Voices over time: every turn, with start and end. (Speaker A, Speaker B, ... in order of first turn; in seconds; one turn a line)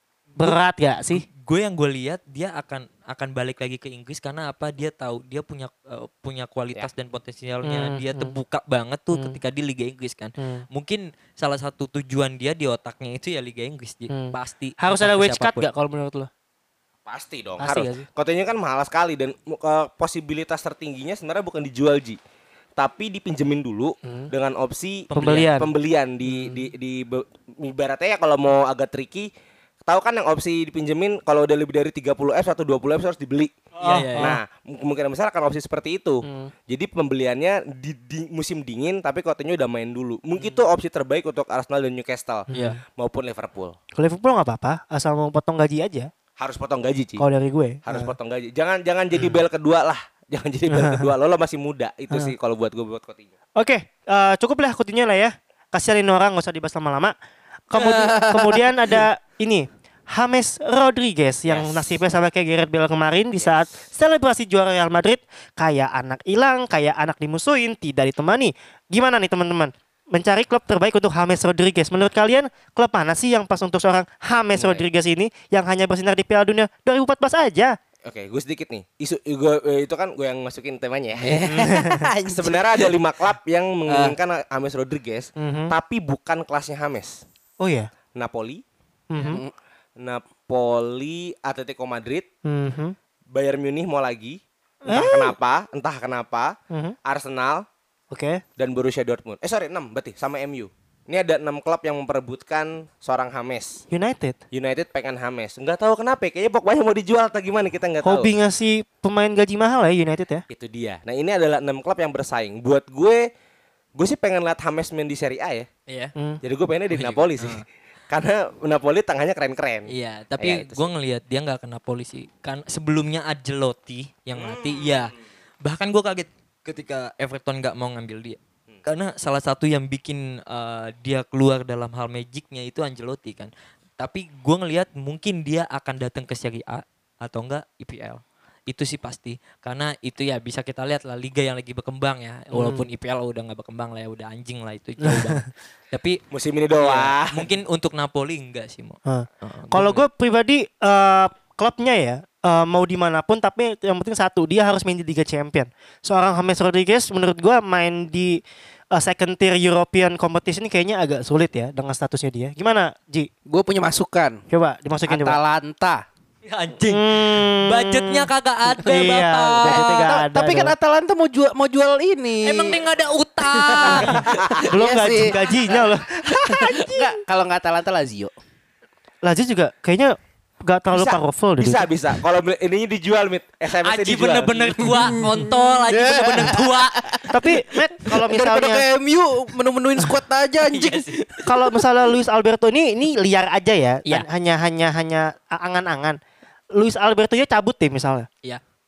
Speaker A: 0.4-1.2
Speaker B: 1.1-15.7
Speaker A: 7.6-8.3
Speaker A: 9.1-9.4
Speaker A: 10.4-10.7
Speaker A: 14.1-16.3
Speaker C: 17.1-22.2
Speaker A: 17.6-18.1
Speaker C: 22.8-29.3
Speaker A: 24.1-24.3
Speaker B: 25.1-25.5
Speaker A: 25.1-25.7
Speaker A: 26.2-26.6
Speaker C: 29.8-33.6
Speaker B: 33.8-34.4
Speaker A: 33.8-34.4
Speaker C: 34.1-43.8
Speaker A: 36.2-36.5
Speaker A: 42.5-42.8
Speaker B: 42.5-42.8
Speaker A: 44.0-46.1
Speaker C: 46.4-47.2
Speaker A: 47.2-48.1
Speaker C: 47.9-53.3
Speaker A: 50.7-51.1
Speaker A: 53.6-57.1
Speaker A: 57.7-77.8
Speaker D: 57.7-59.0
Speaker C: 61.5-61.9
Speaker C: 63.4-63.6
Speaker C: 74.5-74.8
Speaker C: 78.0-81.5
Speaker D: 81.2-83.0
Speaker A: 81.5-82.1
Speaker C: 82.3-87.2
Speaker D: 83.9-84.2
Speaker A: 85.4-85.7
Speaker A: 87.6-87.9
Speaker C: 88.1-88.6
Speaker A: 89.1-89.4
Speaker D: 89.2-89.5
Speaker C: 90.0-92.3
Speaker A: 92.4-93.0
Speaker C: 93.3-97.6
Speaker A: 94.8-95.3
Speaker A: 96.7-97.0
Speaker A: 98.1-98.4
Speaker C: 98.6-103.8
Speaker A: 103.9-104.4
Speaker C: 104.5-108.3
Speaker A: 108.0-110.4
Speaker C: 110.5-113.3
Speaker C: 114.0-115.7
Speaker B: 115.9-116.1
Speaker C: 116.4-120.9
Speaker B: 116.9-117.6
Speaker B: 119.9-146.2
Speaker C: 124.3-125.1
Speaker A: 142.5-142.8
Speaker A: 145.1-145.4
Speaker C: 146.3-147.5
Speaker B: 146.8-150.1
Speaker A: 149.1-158.4
Speaker A: 158.9-163.3
Speaker D: 163.5-164.4
Speaker A: 164.5-165.4
Speaker D: 165.1-166.0
Speaker B: 166.4-170.1
Speaker A: 166.9-170.7
Speaker D: 169.6-172.8
Speaker B: 172.4-174.3
Speaker D: 173.4-178.3
Speaker C: 173.9-174.7
Speaker A: 174.7-177.1
Speaker A: 179.2-181.9
Speaker C: 180.9-184.7
Speaker B: 183.8-187.2
Speaker D: 184.8-191.1
Speaker A: 187.3-188.8
Speaker B: 190.7-191.5
Speaker A: 191.4-196.2
Speaker A: 196.7-198.3